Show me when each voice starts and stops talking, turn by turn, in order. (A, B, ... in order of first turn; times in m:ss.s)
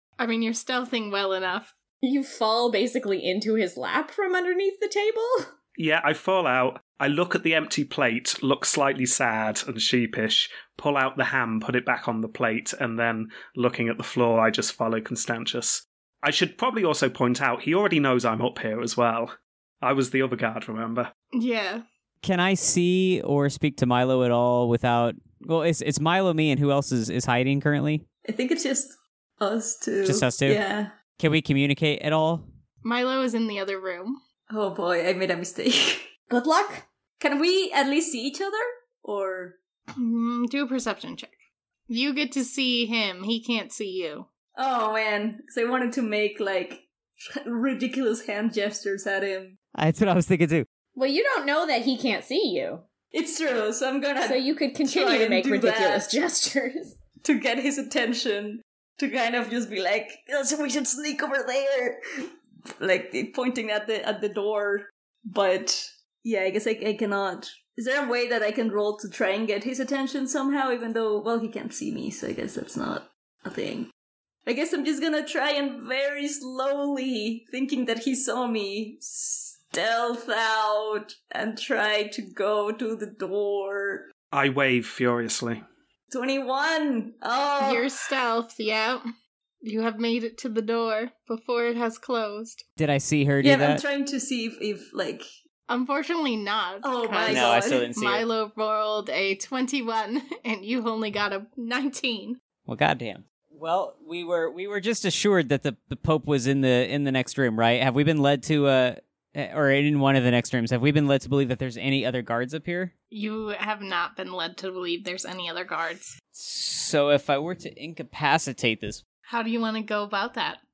0:00.2-0:01.7 A
0:02.0-0:05.5 B
0:05.8-0:21.1 C
0:21.3-0:21.8 A
0:22.2-0:28.0 D
0:28.3-0:31.0 E
0:30.0-0:30.6 D
0:31.2-0:32.5 D
0:32.8-0:34.2 A
0:34.5-0:36.1 E
0:36.3-0:36.9 B
0:37.2-0:39.6 E
0:40.0-0:41.4 A
0:41.9-0:44.3 A
0:44.6-0:49.6 E
0:49.8-0:50.7 D
0:51.0-0:52.8 B
0:53.1-0:56.2 E
0:54.2-0:57.0 B
0:57.2-1:02.0 E
1:02.8-1:13.9 E
1:14.5-1:24.1 E
1:24.3-1:25.6 C
1:26.1-1:27.9 E
1:27.6-1:29.0 A
1:29.6-1:32.6 A
1:32.8-1:33.8 D
1:33.4-1:35.2 E
1:35.7-1:42.4 A
1:36.8-1:37.9 E
1:37.3-1:38.3 D
1:42.7-1:52.9 D
1:53.1-1:56.1 A
1:56.3-1:59.0 D
1:59.3-2:00.6 A